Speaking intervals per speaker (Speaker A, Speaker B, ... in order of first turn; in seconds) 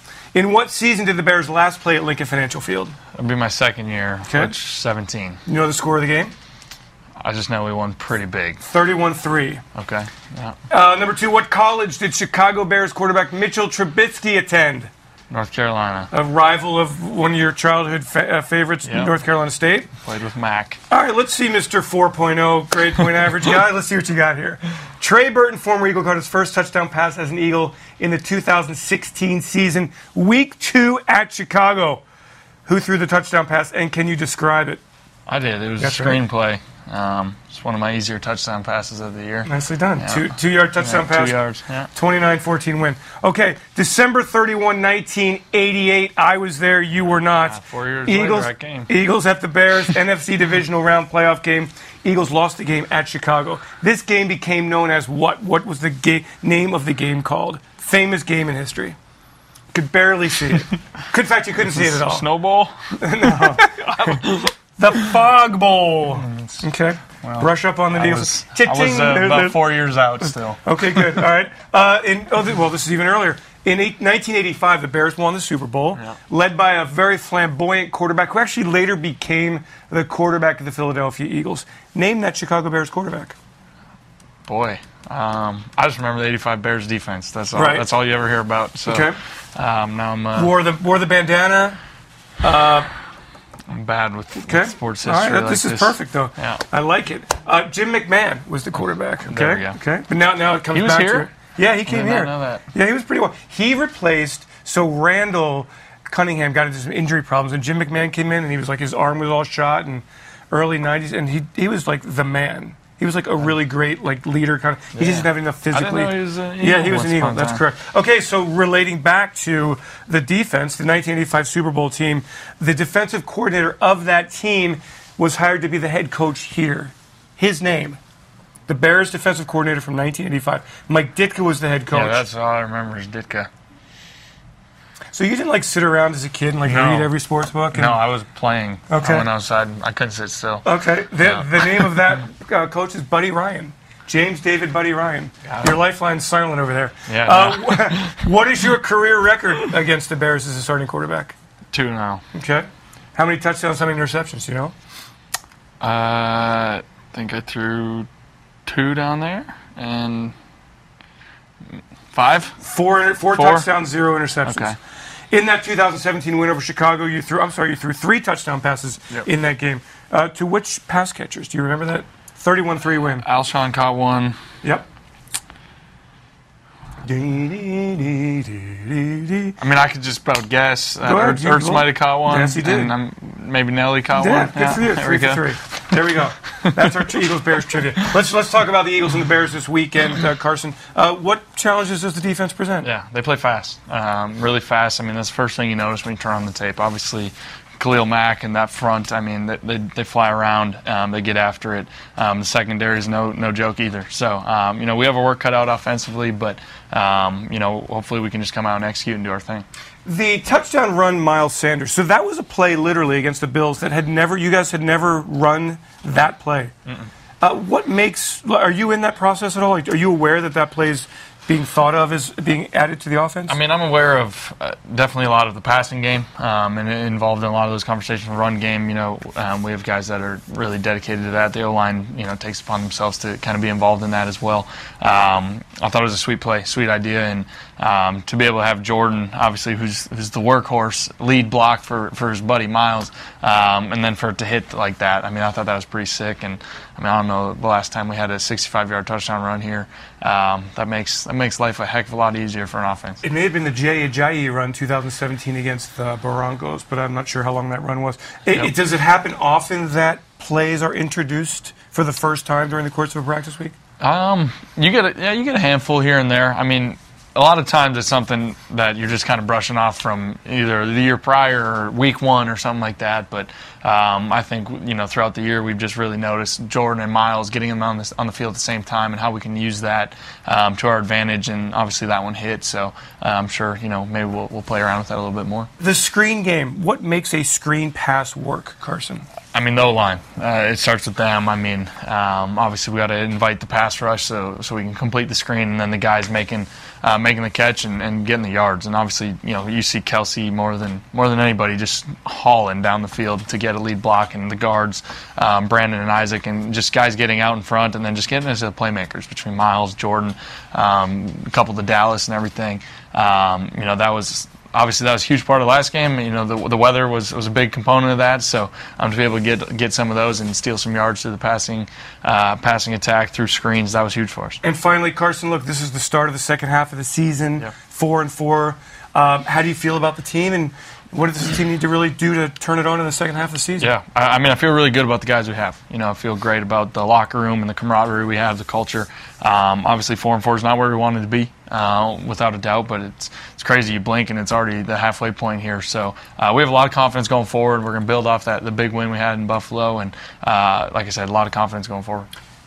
Speaker A: 0.3-2.9, 4.3-4.5, 5.5-6.3, 8.6-9.6, 10.7-14.9, 16.1-19.9, 20.9-32.0, 32.6-34.8, 35.8-36.2, 39.4-41.4, 41.9-59.0, 59.7-62.2, 63.0-69.7, 70.2-83.3, 87.5-87.8, 88.8-89.2, 90.3-91.8, 92.4-92.9, 94.4-128.0, 128.7-132.2, 135.1-138.0, 138.9-139.2, 140.6-151.3, 152.3-154.7, 162.6-164.7, 165.3-173.2, 177.0-179.6, 181.0-182.9, 184.1-192.9, 210.1-216.7, 217.4-223.6, 253.2-263.8, 285.8-289.2, 324.6-333.9
Speaker B: 3.1-5.4, 7.2-8.6, 9.7-10.6, 15.3-16.1, 18.8-19.2, 20.0-20.8, 35.3-41.9, 47.3-48.9, 61.6-64.4, 66.0-66.6, 67.2-71.0, 84.5-90.5, 93.7-96.6, 99.2-99.8, 100.7-101.3, 101.8-102.6, 114.9-117.6, 131.9-133.5, 136.6-137.1, 137.7-140.7, 141.2-141.9, 145.5-145.7, 147.1-148.2, 151.7-152.2, 155.8-158.1, 158.7-160.3, 161.8-162.6, 163.3-163.7, 164.4-164.7, 173.0-174.4, 179.6-185.6, 192.8-209.7, 223.5-253.2, 264.0-285.7, 289.5-324.6, 333.8-352.3